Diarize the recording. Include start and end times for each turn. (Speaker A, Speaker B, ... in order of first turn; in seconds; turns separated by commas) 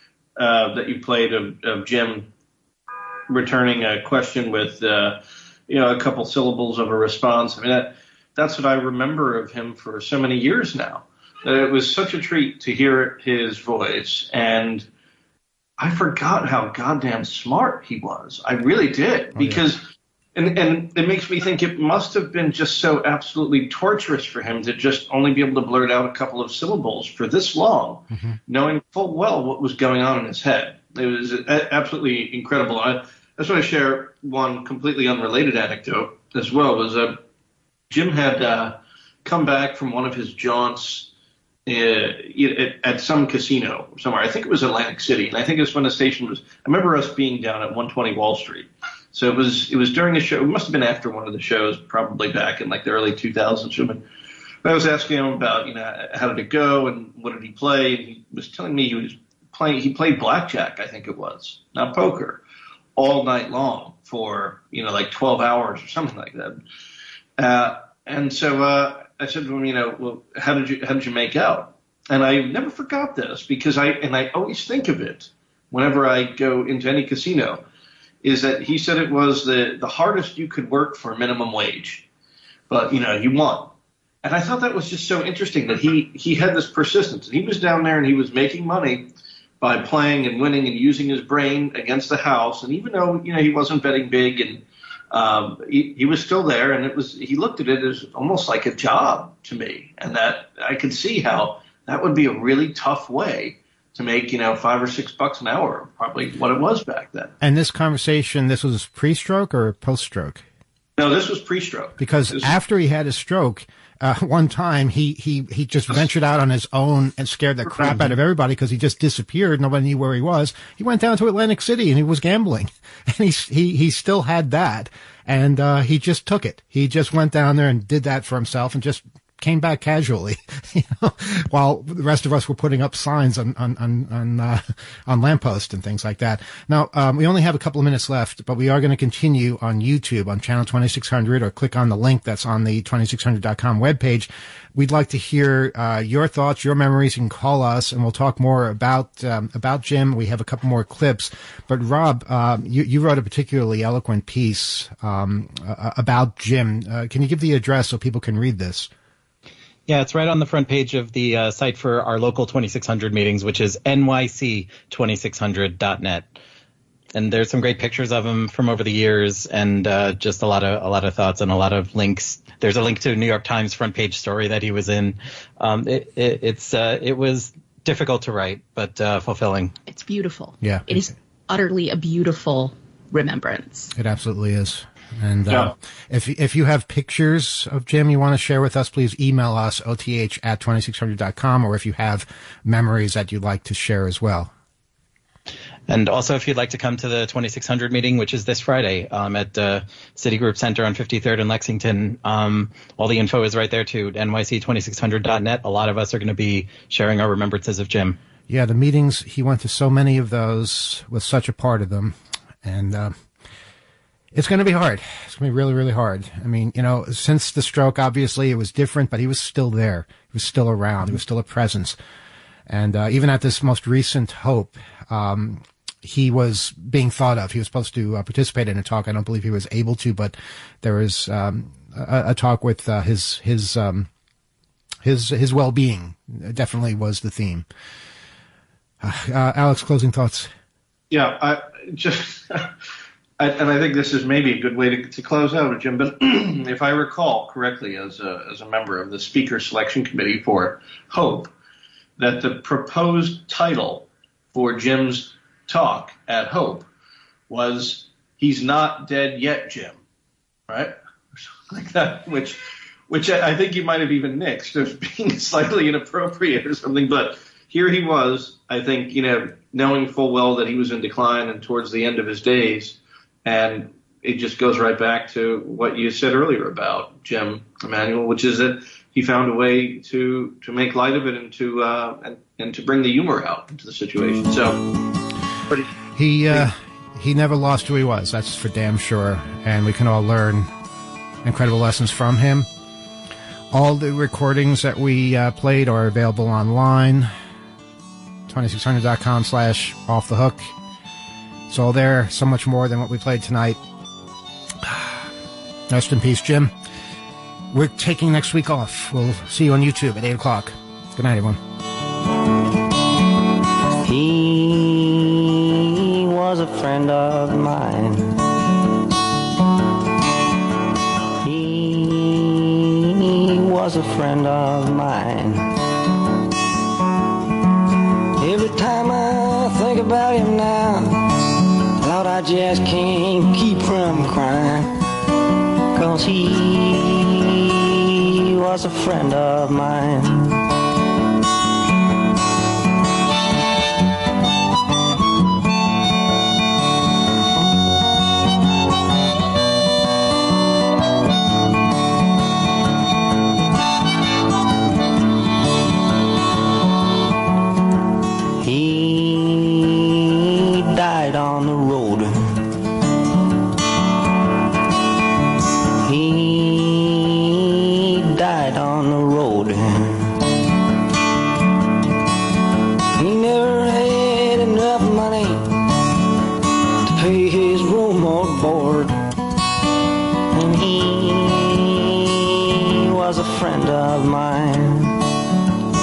Speaker A: 0.4-2.3, Speaker A: 3.3-14.9, Speaker A: 15.8-19.8, Speaker B: 19.4-19.6, Speaker A: 20.4-37.2, Speaker B: 28.1-28.4, Speaker A: 37.9-41.1, Speaker A: 41.7-54.0, Speaker A: 54.6-62.4, Speaker A: 63.0-66.6, Speaker A: 67.4-77.6, Speaker A: 78.2-82.1, Speaker A: 82.7-83.7, Speaker A: 84.2-89.1, Speaker A: 89.6-107.3, Speaker B: 107.4-110.4, Speaker A: 111.0-112.5, Speaker B: 112.0-158.9, Speaker A: 117.8-118.1, Speaker C: 159.9-166.4, Speaker C: 167.2-179.8, Speaker D: 179.9-183.9, Speaker B: 180.6-181.1, Speaker B: 183.9-194.5, Speaker C: 195.9-208.2, Speaker B: 208.5-213.1, Speaker B: 214.3-222.0, Speaker B: 222.7-234.1, Speaker B: 235.0-237.7, Speaker B: 239.0-240.5, Speaker A: 241.1-242.7, Speaker A: 243.4-251.5, Speaker A: 252.2-256.9, Speaker A: 257.5-260.0, Speaker A: 260.7-262.6, Speaker A: 263.1-284.8, Speaker B: 286.2-290.7, Speaker B: 291.4-292.7, Speaker B: 293.7-297.3, Speaker B: 298.5-300.7, Speaker B: 301.7-303.8, Speaker B: 305.9-306.7, Speaker B: 307.7-311.6, Speaker E: 314.0-318.4, Speaker E: 321.4-325.7, Speaker E: 328.4-331.3, Speaker E: 332.0-334.9, Speaker E: 335.9-340.6, Speaker E: 358.6-362.6, Speaker E: 366.0-370.4, Speaker E: 373.2-375.8, Speaker E: 377.1-379.2, Speaker E: 380.5-385.2